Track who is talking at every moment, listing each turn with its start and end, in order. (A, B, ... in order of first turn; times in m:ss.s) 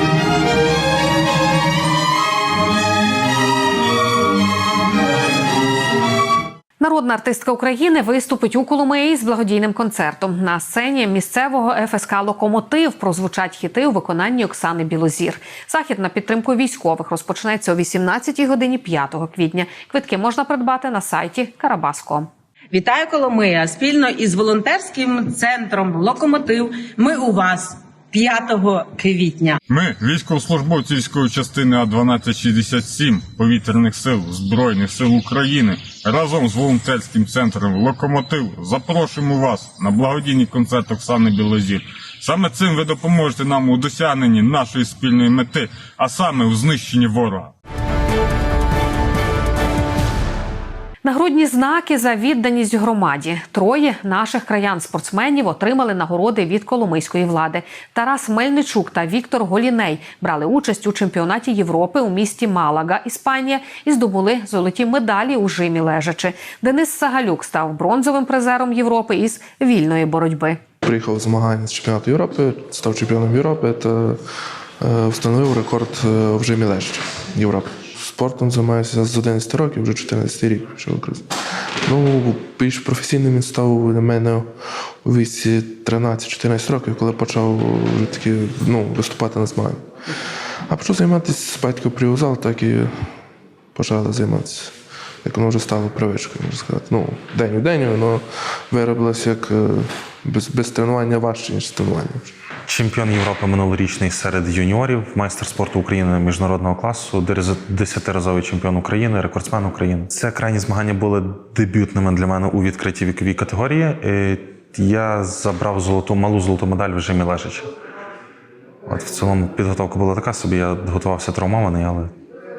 0:06.8-0:22.3 A
0:22.7-0:29.6 B
0:29.7-0:47.5 C
0:51.0-1:10.6 A
1:10.8-1:14.2 D
1:14.8-1:21.3 D
1:21.8-1:29.9 D
1:30.7-1:33.1 D
1:33.7-1:42.3 D
1:42.7-1:57.7 E
1:58.9-2:02.1 E